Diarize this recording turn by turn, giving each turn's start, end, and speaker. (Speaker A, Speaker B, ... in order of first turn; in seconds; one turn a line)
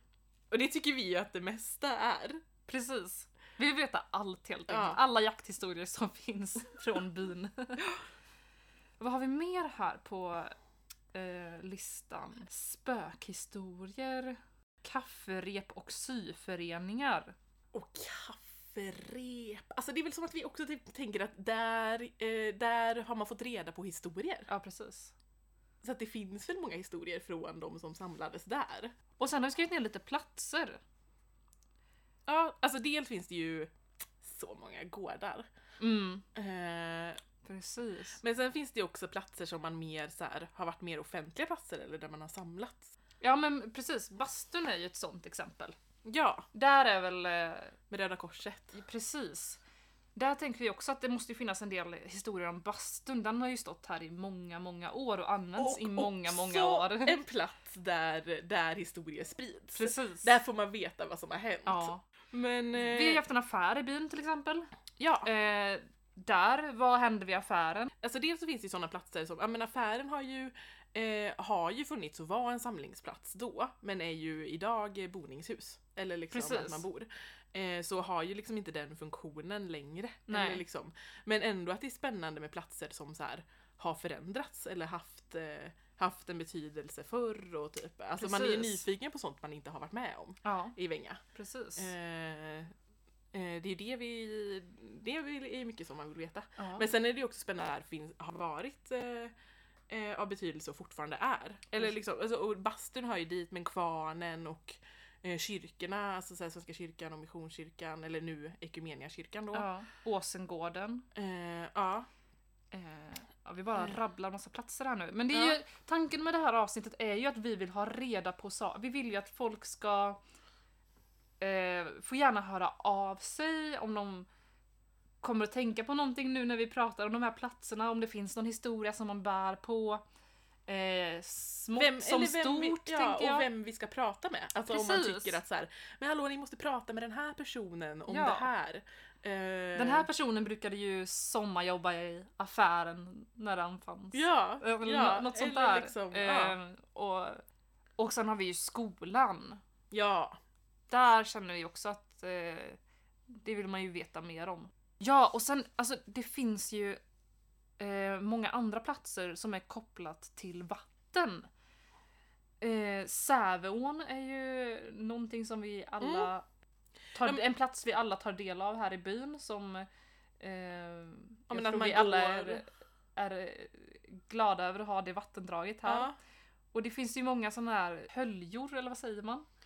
Speaker A: 0.5-2.4
Speaker B: 2.7-7.8
Speaker A: 4.7-5.0
Speaker B: 9.0-10.5
Speaker B: 11.1-17.4
Speaker A: 17.7-24.5
Speaker B: 24.5-25.1
Speaker A: 25.8-28.9
Speaker B: 29.2-30.8
Speaker A: 32.2-33.7
Speaker A: 34.2-35.5
Speaker B: 35.8-36.2
Speaker A: 36.3-37.2
Speaker B: 37.4-38.2
Speaker A: 38.2-42.9
Speaker B: 43.2-45.8
Speaker A: 46.0-46.5
Speaker B: 46.5-47.8
Speaker A: 47.9-48.8
Speaker B: 48.7-49.6
Speaker B: 50.1-57.2
Speaker A: 55.5-63.2
Speaker B: 59.7-60.3
Speaker B: 61.6-62.0
Speaker B: 62.7-67.9
Speaker A: 65.0-65.3
Speaker A: 68.0-91.2
Speaker B: 76.3-76.8
Speaker B: 80.3-80.6
Speaker B: 88.2-88.8
Speaker B: 90.4-90.7
Speaker B: 91.3-91.9
Speaker A: 91.8-92.7
Speaker A: 93.3-99.3
Speaker B: 96.6-96.9
Speaker A: 99.9-109.7
Speaker B: 109.5-111.1
Speaker A: 111.1-112.1
Speaker B: 112.7-120.2
Speaker B: 121.4-124.3
Speaker B: 125.2-130.0
Speaker B: 130.7-133.5
Speaker A: 131.7-140.1
Speaker B: 134.7-135.4
Speaker B: 138.1-138.5
Speaker B: 139.7-147.4
Speaker A: 144.1-146.6
Speaker B: 148.0-149.6
Speaker A: 149.9-150.4
Speaker B: 150.9-152.8
Speaker B: 153.3-157.0
Speaker B: 157.8-161.5
Speaker B: 162.6-166.4
Speaker A: 166.0-166.3
Speaker B: 167.1-169.9
Speaker B: 170.4-176.1
Speaker A: 171.5-172.6
Speaker A: 175.8-176.1
Speaker B: 176.7-179.4